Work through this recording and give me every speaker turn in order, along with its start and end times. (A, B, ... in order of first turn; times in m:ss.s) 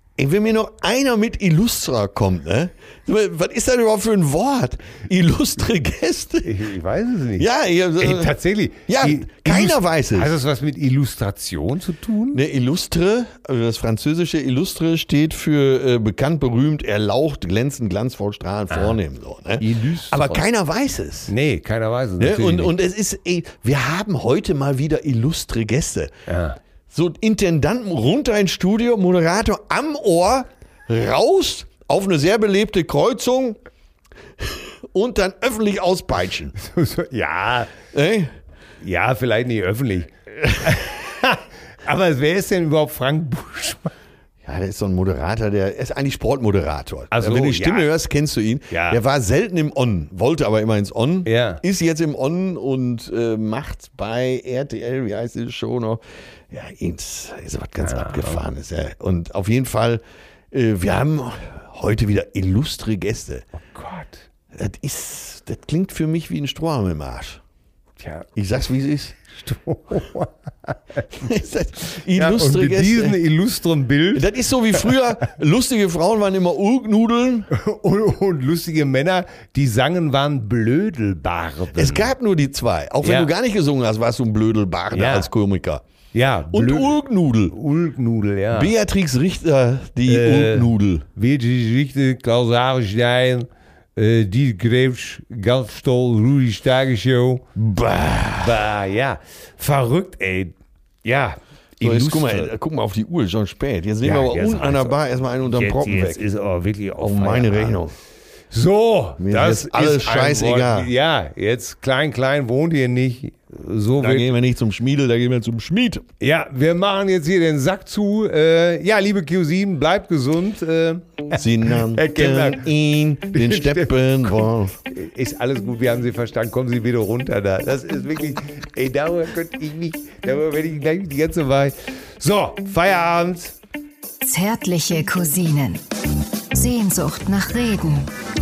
0:00.2-0:06.6 A
0:06.4-0:12.4 B
0:07.4-0:08.3 A
0:08.9-0:10.3 A
0:12.3-0:21.3 A
0:19.6-0:20.4 B
0:21.3-0:22.7 B
0:22.2-0:26.1 A
0:26.3-0:26.6 B
0:26.9-0:33.6 A
0:34.4-0:36.6 A
0:36.6-0:37.7 B
0:37.9-0:38.3 A
0:38.8-0:43.9 B
0:44.4-1:03.4 A
0:47.1-0:47.9 B
0:48.7-0:49.0 B
0:51.3-0:51.6 B
0:57.8-0:58.4 B
1:03.8-1:04.3 B
1:04.5-1:07.4 A
1:08.0-1:08.3 B
1:08.4-1:09.2 A
1:09.3-1:11.1 B
1:11.1-1:13.2 A
1:12.1-1:15.0 B
1:14.1-1:17.5 A
1:17.5-1:22.1 B
1:21.7-1:25.8 A
1:23.0-1:23.3 B
1:24.9-1:25.3 B
1:26.1-1:28.7 B
1:26.5-1:27.6 A
1:28.5-1:31.0 A
1:30.1-1:37.5 B
1:37.6-1:38.7 A
1:38.4-1:40.5 B
1:41.0-1:42.5 B
1:41.8-1:46.2 A
1:44.0-1:47.8 B
1:47.0-1:47.9 A
1:48.5-1:54.3 B
1:49.2-1:50.9 A
1:54.0-1:56.1 A
1:56.2-2:02.7 B
2:01.3-2:04.8 A
2:03.3-2:13.6 B
2:14.2-2:15.8 C
2:16.5-2:18.1 C